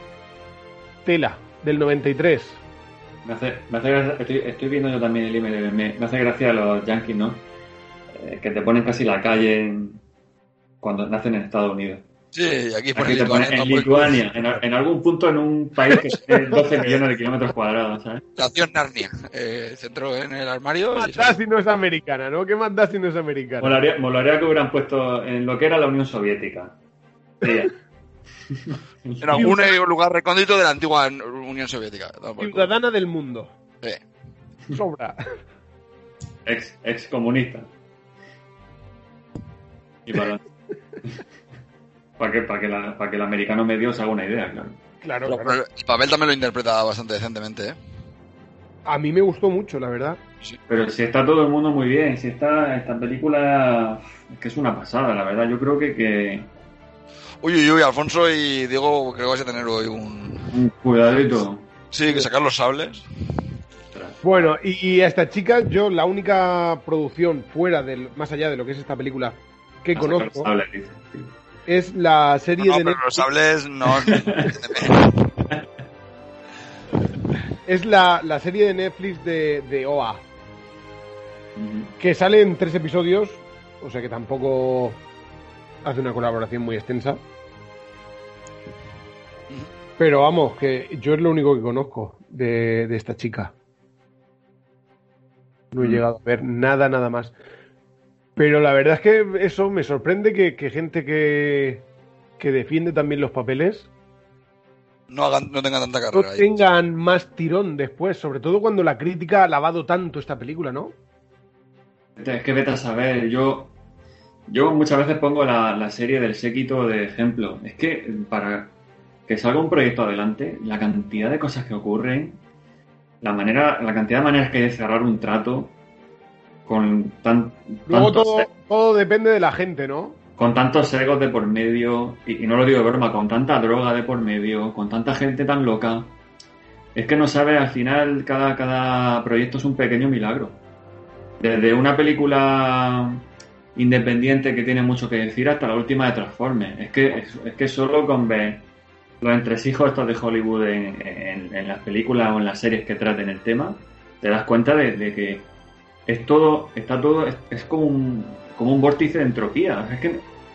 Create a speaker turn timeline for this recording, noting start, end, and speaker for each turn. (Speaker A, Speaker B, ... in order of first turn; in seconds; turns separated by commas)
Speaker A: 1.1-2.6, Speaker B: 3.2-7.5, Speaker B: 8.1-10.0, Speaker B: 10.8-12.0, Speaker C: 12.3-14.3, Speaker B: 12.9-18.3, Speaker C: 18.4-21.4, Speaker A: 20.9-23.8, Speaker B: 23.6-26.7, Speaker B: 27.4-27.7, Speaker B: 28.7-29.5, Speaker C: 29.2-32.7, Speaker A: 32.4-33.5, Speaker A: 34.7-35.2, Speaker B: 36.5-37.7, Speaker B: 40.1-40.4, Speaker B: 42.2-44.8, Speaker A: 45.0-45.6, Speaker C: 45.3-47.8, Speaker A: 48.9-50.2, Speaker B: 50.7-56.5, Speaker C: 57.4-60.5, Speaker B: 60.5-61.6, Speaker C: 61.9-63.4, Speaker B: 63.9-64.2, Speaker A: 64.2-70.5, Speaker B: 70.0-71.3, Speaker A: 71.7-73.3, Speaker C: 72.6-75.4, Speaker B: 73.9-74.6, Speaker A: 77.7-80.2, Speaker B: 81.6-81.9, Speaker A: 82.0-85.0, Speaker A: 85.8-87.2, Speaker A: 90.0-93.5, Speaker A: 95.7-97.3, Speaker A: 98.4-101.8, Speaker A: 102.4-103.9, Speaker C: 105.1-106.6, Speaker A: 106.1-111.0, Speaker B: 112.2-113.7, Speaker B: 114.5-118.7, Speaker B: 119.3-122.4, Speaker B: 123.2-125.7, Speaker B: 126.7-128.5, Speaker A: 127.9-130.2, Speaker B: 130.4-136.1, Speaker B: 136.9-140.6, Speaker B: 141.4-143.2, Speaker B: 143.8-148.6, Speaker B: 149.2-155.5, Speaker B: 156.1-160.2